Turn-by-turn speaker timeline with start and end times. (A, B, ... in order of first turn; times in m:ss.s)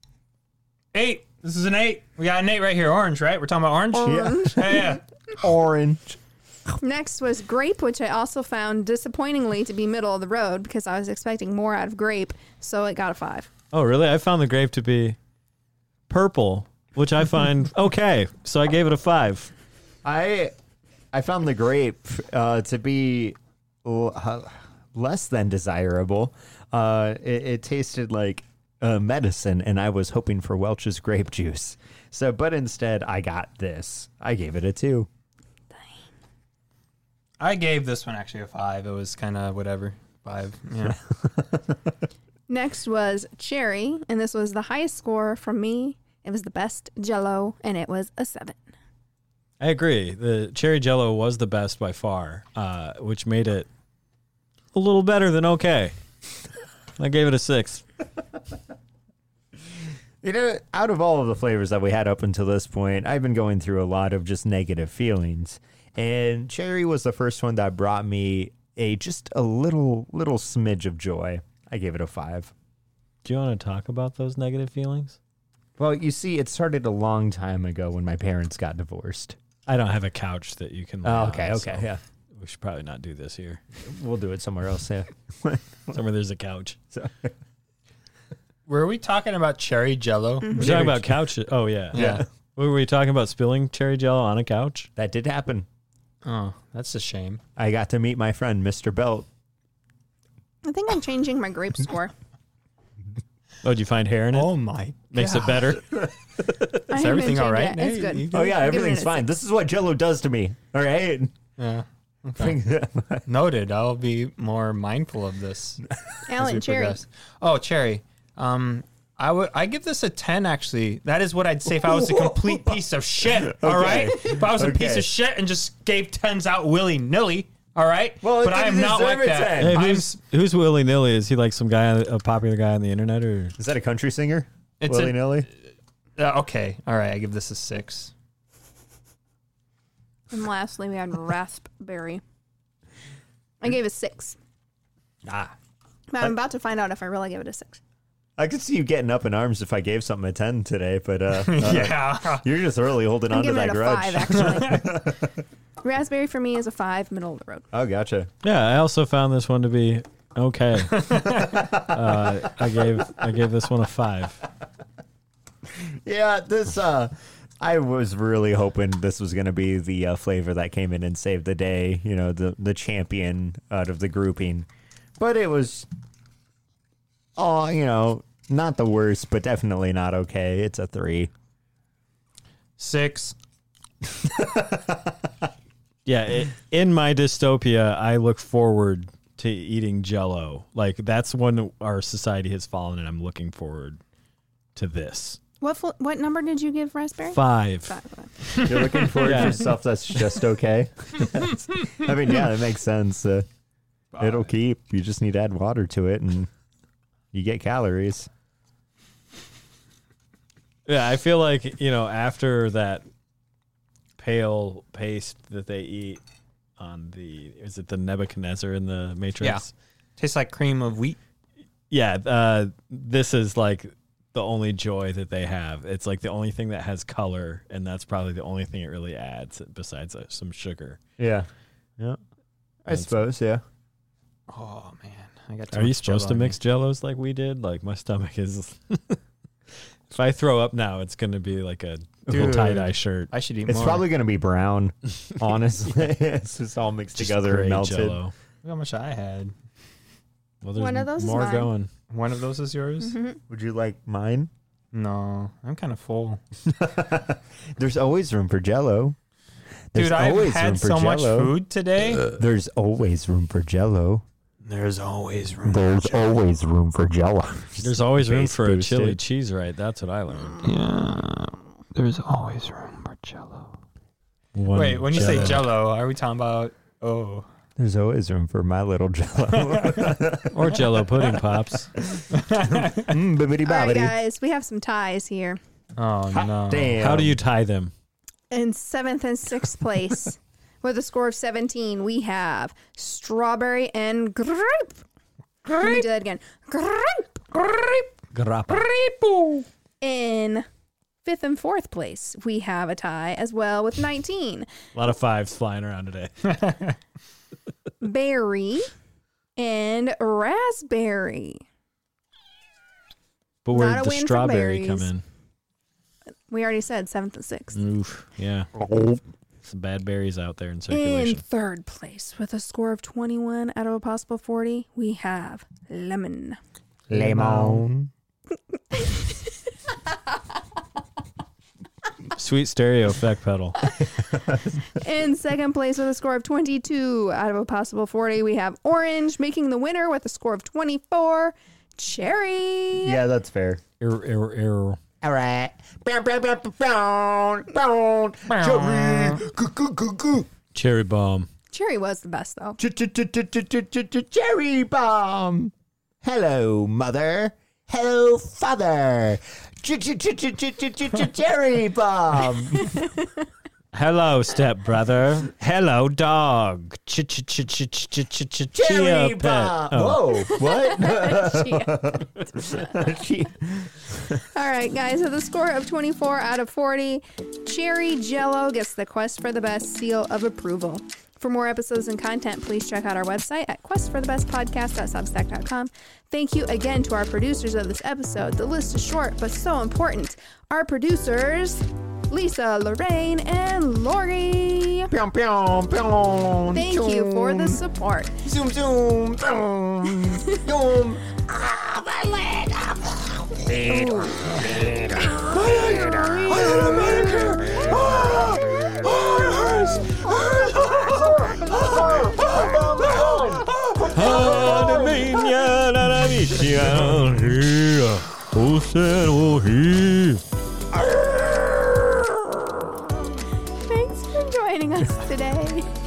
0:00.9-0:05.0 A
0:03.9-0:05.0 B
0:04.0-0:06.2 C
0:06.8-0:13.5 B
0:13.7-0:15.2 D
0:16.1-0:19.5 D
0:20.0-0:20.5 C
0:21.1-0:35.1 C
0:37.4-0:41.0 A
0:42.5-0:48.6 B
0:49.6-0:53.7 D
0:54.7-0:55.9 D
0:57.0-0:57.8 D
1:00.2-1:12.5 C
1:13.2-1:15.2 D
1:15.8-1:19.4 C
1:19.7-1:23.6 D
1:21.0-1:22.0 C
1:23.8-1:26.0 C
1:25.9-1:26.8 D
1:26.9-1:27.3 C
1:28.7-1:31.1 A
1:30.4-1:30.7 B
1:30.5-1:34.9 D
1:31.9-1:32.2 A
1:31.9-1:32.2 C
1:35.0-1:35.6 C
1:36.2-1:37.4 A
1:37.6-1:39.3 C
1:40.6-1:42.1 B
1:43.6-1:44.5 D
1:44.3-1:45.8 A
1:45.1-1:46.6 D
1:46.9-1:48.6 A
1:46.9-1:49.2 B
1:48.3-1:51.3 C
1:51.6-1:52.6 A
1:52.4-1:53.3 C
1:53.3-2:10.2 A
1:56.3-1:57.0 B
2:01.8-2:02.8 C
2:03.4-2:05.1 C
2:08.2-2:09.8 C
2:09.6-2:13.6 D
2:13.6-2:15.5 C
2:14.8-2:15.5 A
2:16.2-2:18.1 A
2:20.3-2:22.2 B
2:23.6-2:24.4 B
2:25.2-2:25.5 C
2:26.1-2:27.8 B
2:28.4-2:35.4 C
2:31.3-2:32.4 A
2:33.3-2:35.1 B
2:34.4-2:34.8 A
2:35.8-2:37.7 B
2:37.7-2:38.3 C
2:38.4-2:44.4 D
2:40.9-2:41.7 A
2:41.4-2:42.4 C
2:45.7-2:55.9 C
2:57.4-3:01.3 C
3:02.8-3:03.4 A
3:04.2-3:05.3 C
3:06.0-3:14.0 D
3:14.8-3:15.4 D
3:15.6-3:18.6 B
3:17.3-3:18.0 D
3:18.5-3:19.5 A
3:18.6-3:23.4 C
3:19.0-3:19.8 D
3:24.1-3:24.4 A
3:24.2-3:26.5 C
3:27.3-3:28.3 C
3:30.8-3:33.0 D
3:34.2-3:36.2 D
3:36.8-3:39.7 D
3:40.2-3:41.2 A
3:41.9-3:51.0 D
3:51.2-3:52.2 C
3:52.8-3:53.6 C
3:54.5-3:56.6 A
3:55.7-3:59.2 D
4:00.1-4:03.3 D
4:02.3-4:02.8 C
4:02.3-4:04.0 A
4:03.6-4:08.2 C
4:07.2-4:08.3 D
4:08.6-4:09.5 A
4:10.6-4:11.9 D
4:10.8-4:11.7 B
4:12.1-4:13.1 A
4:13.0-4:13.4 B
4:13.5-4:14.5 C
4:14.9-4:16.4 A
4:16.6-4:19.2 C
4:19.9-4:21.5 C
4:19.9-4:22.3 A
4:22.2-4:24.2 C
4:24.6-4:25.8 A
4:25.7-4:29.2 C
4:27.8-4:30.7 D
4:30.6-4:33.7 A
4:34.5-4:35.6 D
4:34.7-4:37.5 A
4:37.8-4:40.8 C
4:39.6-4:40.2 A
4:40.5-4:41.9 D
4:42.3-4:43.1 A
4:42.9-4:44.2 C
4:43.6-4:45.6 B
4:46.0-4:47.0 A
4:46.3-4:47.4 C
4:47.0-4:47.9 D
4:48.5-4:55.0 B
4:55.7-4:57.6 B
4:58.3-4:58.9 D
4:58.7-4:59.6 A
5:00.0-5:00.6 B
5:01.2-5:04.7 B
5:04.9-5:06.5 D
5:06.4-5:07.0 A
5:08.0-5:08.9 B
5:09.6-5:11.6 B
5:13.6-5:15.2 D
5:13.7-5:15.1 B
5:16.5-5:17.8 B
5:17.7-5:18.7 D
5:18.9-5:19.1 C
5:19.6-5:21.4 D
5:20.9-5:26.6 B
5:27.1-5:28.1 C
5:27.1-5:27.8 A
5:28.7-5:30.4 B
5:32.3-5:33.9 D
5:33.8-5:34.2 B
5:34.2-5:35.0 C
5:34.9-5:43.2 B
5:43.0-5:43.8 C
5:44.0-5:45.0 D
5:45.2-5:50.5 C
5:48.5-5:49.4 A
5:50.7-5:51.5 D
5:51.7-5:52.8 B
5:52.8-6:03.0 C
6:02.7-6:03.4 B
6:03.9-6:10.6 D
6:08.7-6:14.4 C
6:10.5-6:12.9 B
6:14.5-6:35.1 B
6:35.1-6:37.8 C
6:36.7-6:38.4 B
6:38.4-6:55.8 C
6:43.8-6:44.6 B
6:46.5-6:48.1 D
6:49.0-6:51.0 D
6:52.0-6:53.4 D
6:54.0-7:00.4 D
6:56.4-6:57.5 C
7:00.9-7:02.7 C
7:03.8-7:05.9 B